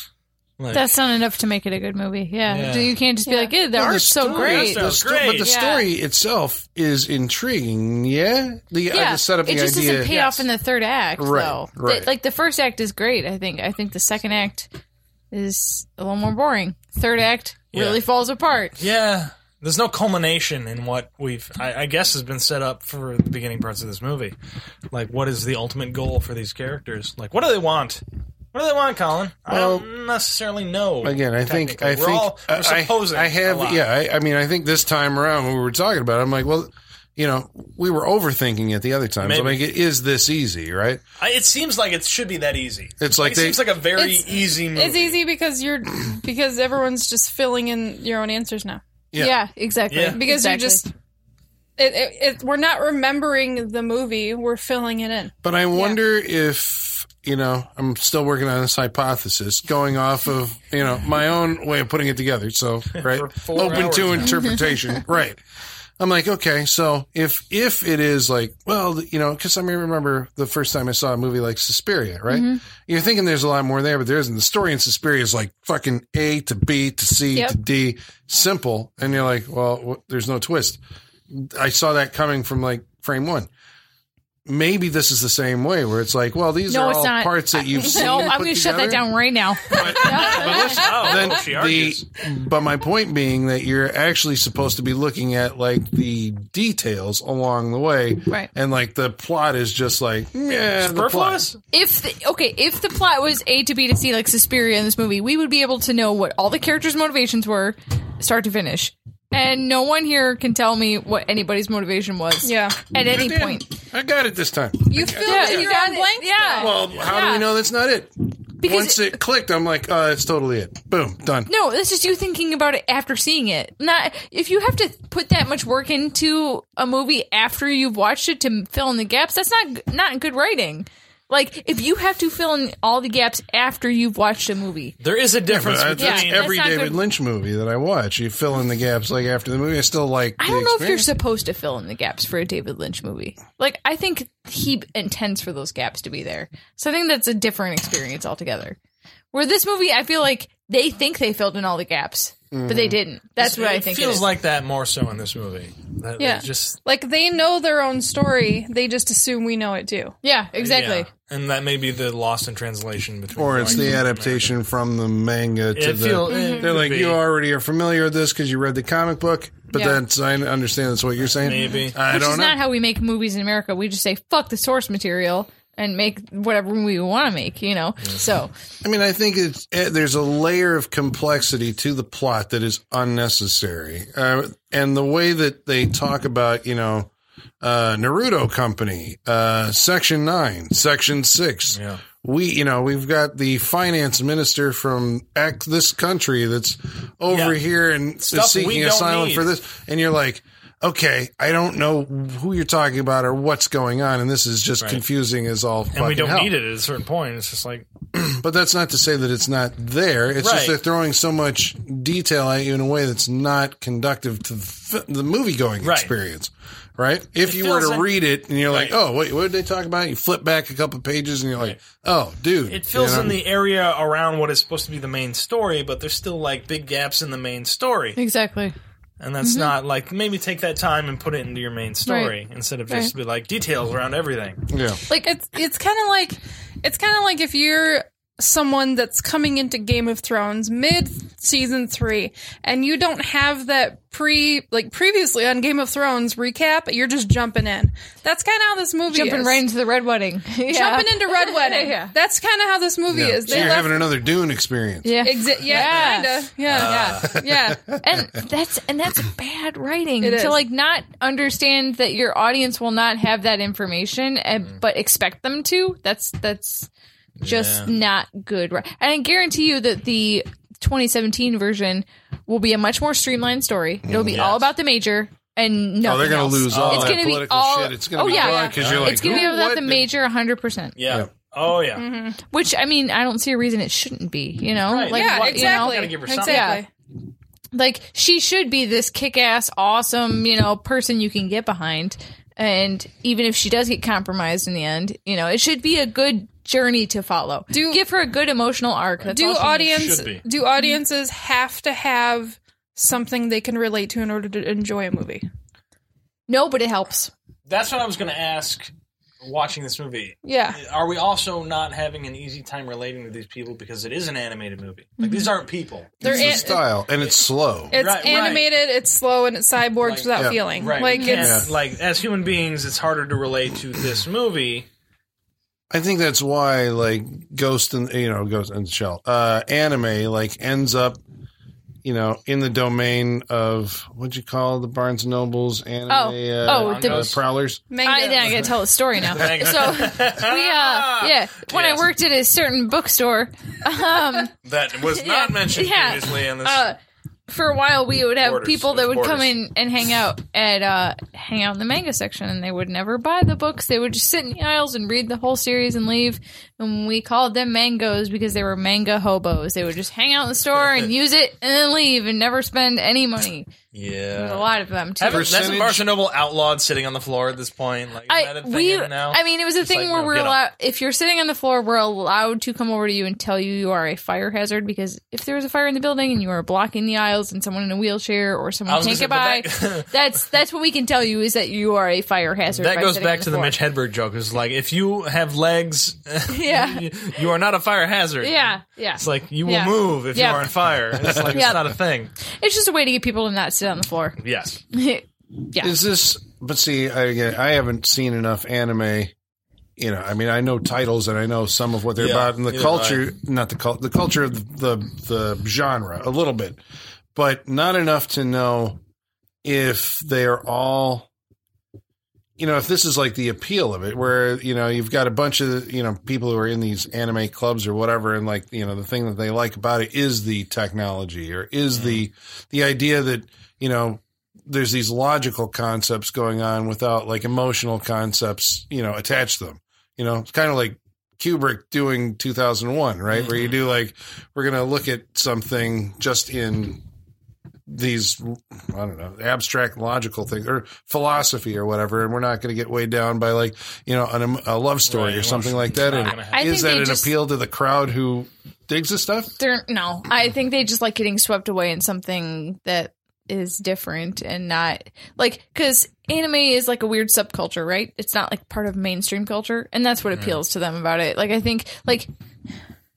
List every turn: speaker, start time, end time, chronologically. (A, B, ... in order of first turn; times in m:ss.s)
0:00.6-0:00.9 A
0:00.7-0:04.9 B
0:02.5-0:03.0 A
0:03.3-0:03.5 C
0:03.7-0:10.2 D
0:04.2-0:05.5 A
0:05.4-0:05.9 B
0:08.9-0:14.7 B
0:10.0-0:10.4 A
0:11.2-0:12.1 D
0:15.3-0:18.8 B
0:17.7-0:18.0 A
0:18.8-0:24.4 A
0:24.9-0:28.0 A
0:28.5-0:33.8 A
0:29.5-0:29.9 D
0:31.0-0:41.0 D
0:39.2-0:39.6 A
0:41.2-0:45.2 A
0:43.0-0:43.7 D
0:44.0-0:48.8 C
0:49.1-0:49.4 D
0:49.2-0:50.8 B
0:49.9-0:50.2 A
0:50.1-0:50.9 C
0:51.8-0:55.3 C
0:55.4-1:05.4 D
1:03.0-1:04.4 A
1:04.3-1:04.6 B
1:06.0-1:23.5 D
1:12.3-1:12.6 B
1:24.5-1:29.0 D
1:26.7-1:30.9 B
1:29.7-1:41.4 D
1:29.8-1:32.1 A
1:40.8-1:41.6 A
1:41.7-1:53.7 B
1:52.4-1:52.8 C
1:53.0-1:55.7 D
1:54.9-1:56.8 C
1:55.2-1:57.4 B
1:56.6-2:01.5 D
1:58.6-1:59.2 B
2:01.5-2:15.0 B
2:15.0-2:16.6 A
2:15.5-2:21.1 D
2:16.0-2:17.0 B
2:20.4-2:28.8 B
2:29.3-2:34.3 B
2:32.5-2:33.0 D
2:33.4-2:36.8 A
2:36.2-2:40.2 C
2:40.2-2:41.1 B
2:40.6-2:44.6 A
2:43.4-2:52.6 D
2:45.7-2:47.2 A
2:46.3-2:46.7 C
2:49.7-2:50.0 B
2:51.4-2:52.0 A
2:52.0-2:58.5 B
2:58.8-3:07.1 D
3:07.6-3:26.5 D
3:11.7-3:12.0 A
3:17.3-3:17.6 A
3:18.2-3:19.5 A
3:25.9-3:27.9 A
3:28.1-3:43.4 D
3:30.4-3:30.8 A
3:35.8-3:36.1 A
3:37.4-3:38.9 A
3:42.7-3:48.2 A
3:48.2-3:48.8 B
3:49.2-3:54.6 A
3:49.4-3:49.7 B
3:52.0-3:52.3 B
3:54.7-3:55.0 D
3:55.2-4:09.6 C
4:09.1-4:12.1 B
4:10.7-4:14.1 C
4:13.1-4:15.3 D
4:13.5-4:13.8 B
4:15.0-4:17.3 B
4:15.2-4:17.8 C
4:16.7-4:17.3 A
4:16.7-4:18.0 D
4:18.0-4:26.9 B
4:20.2-4:20.6 C
4:27.4-4:27.9 A
4:27.4-4:41.0 B
4:34.1-4:34.5 D
4:34.3-4:34.7 A
4:36.0-4:40.1 D
4:36.7-4:37.3 A
4:38.3-4:38.8 C
4:38.4-4:39.4 A
4:41.0-4:42.1 A
4:42.0-4:42.4 C
4:42.5-4:46.8 B
4:44.9-4:46.8 A
4:45.1-4:46.9 C
4:47.7-5:00.1 B
4:57.7-4:58.0 C
4:59.3-5:05.4 C
4:59.9-5:00.4 A
5:06.5-5:07.3 B
5:07.7-5:08.9 A
5:09.4-5:17.4 A
5:10.4-5:10.8 C
5:15.2-5:15.5 B
5:16.2-5:16.8 C
5:16.2-5:17.9 D
5:17.9-5:21.6 C
5:17.9-5:18.7 A
5:20.0-5:24.9 A
5:21.1-5:21.5 B
5:21.4-5:21.7 D
5:25.9-5:31.2 D
5:32.0-5:37.8 D
5:36.1-5:37.3 B
5:36.7-5:37.4 A
5:37.9-5:38.7 C
5:38.0-5:44.5 B
5:39.2-5:42.1 A
5:44.6-5:46.9 A
5:45.1-5:47.0 B
5:47.5-6:03.7 B
5:48.4-5:49.6 A
6:03.9-6:10.6 A
6:04.4-6:05.7 B
6:05.3-6:06.1 D
6:08.3-6:23.8 B
6:18.9-6:20.1 A
6:22.7-6:32.3 A
6:26.5-6:27.1 B
6:28.4-6:30.7 B
6:31.2-6:31.8 D
6:31.5-6:31.9 B
6:32.5-6:34.4 B
6:34.4-6:34.8 A
6:34.9-6:36.0 B
6:35.8-6:39.3 D
6:40.0-6:46.8 D
6:42.2-6:43.3 A
6:47.4-6:49.0 D
6:49.6-6:51.3 D
6:52.6-7:17.0 D
7:01.9-7:02.2 A
7:13.3-7:13.8 A
7:17.9-7:29.5 D
7:25.1-7:26.8 A
7:26.4-7:27.3 B
7:29.6-7:42.3 B
7:40.3-7:40.6 A